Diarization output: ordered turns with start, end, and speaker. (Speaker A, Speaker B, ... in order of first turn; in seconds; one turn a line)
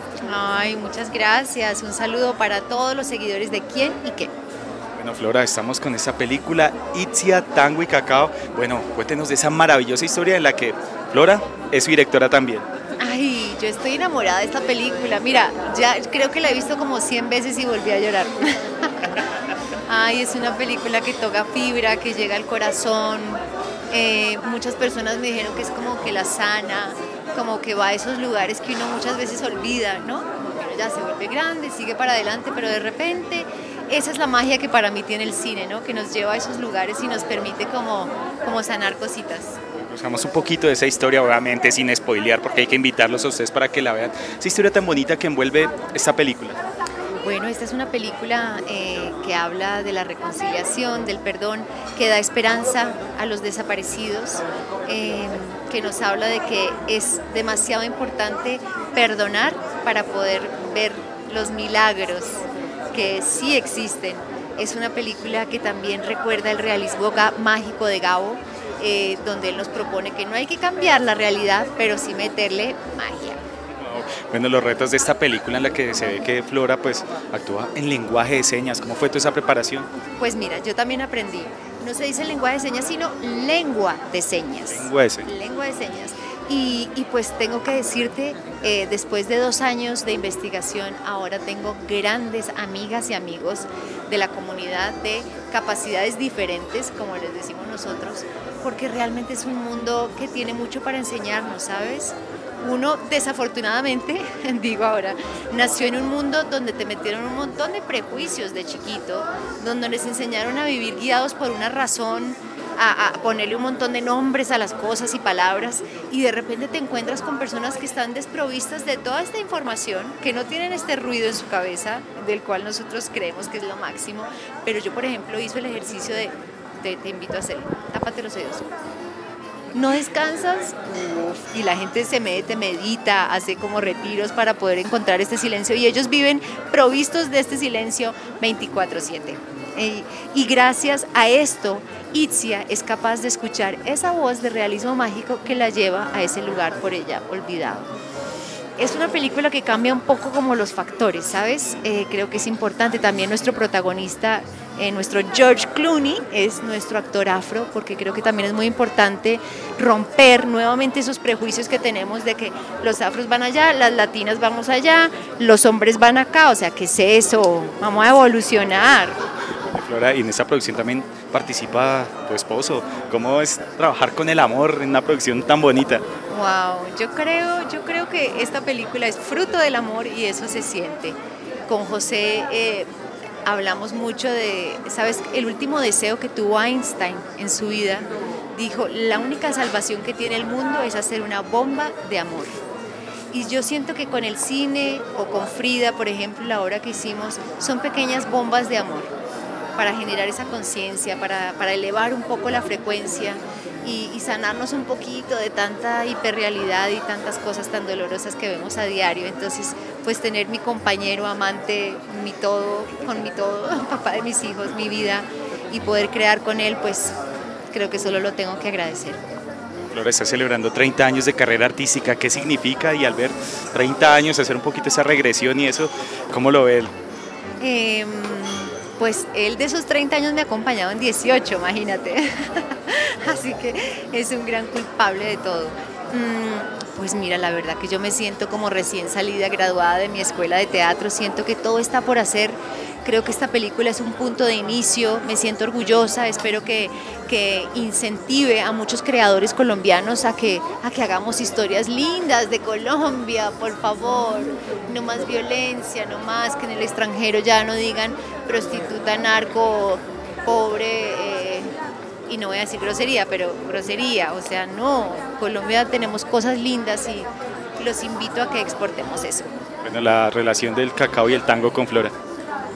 Speaker A: 0.2-4.3
Speaker B: 5.0-12.7
Speaker A: 13.0-19.3
Speaker A: 19.9-39.6
Speaker B: 39.7-46.6
Speaker A: 47.2-73.4
Speaker B: 73.8-79.9
Speaker A: 80.2-128.7
Speaker B: 84.7-85.3
Speaker A: 129.7-147.9
Speaker A: 148.8-169.2
Speaker B: 169.7-176.0
Speaker A: 176.3-182.9
Speaker A: 183.4-192.6
Speaker A: 193.3-199.1
Speaker A: 199.8-217.1
Speaker A: 217.7-219.2
Speaker B: 219.9-226.9
Speaker A: 227.6-261.7
Speaker A: 262.3-269.5
Speaker B: 269.8-272.1